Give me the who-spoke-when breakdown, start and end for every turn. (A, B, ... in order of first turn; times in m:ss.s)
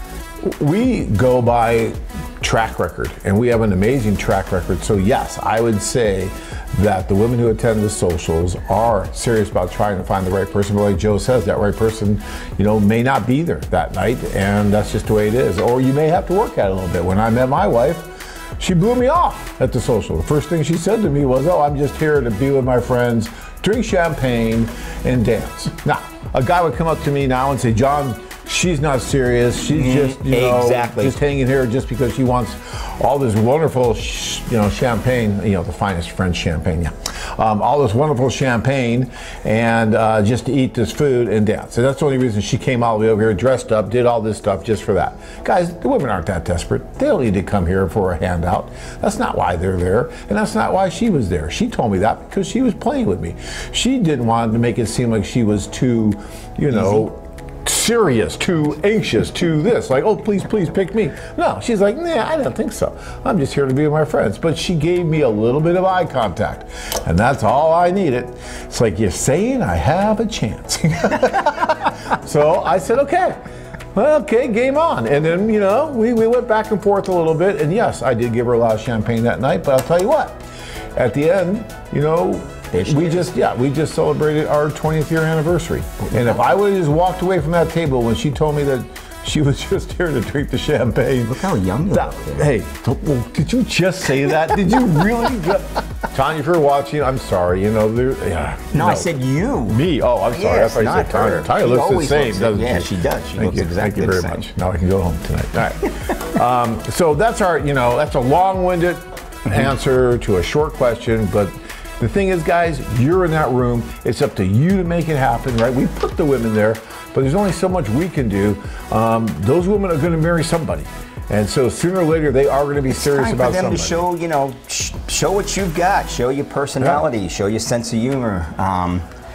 0:00.4-1:13.4 A
0:29.7-0:31.2 B
1:13.9-1:20.4 A
1:21.0-1:31.4 A
1:22.7-1:23.3 B
1:31.2-1:32.5 B
1:31.9-1:39.1 A
1:38.7-1:44.4 B
1:39.7-2:04.1 A
2:02.9-2:09.1 B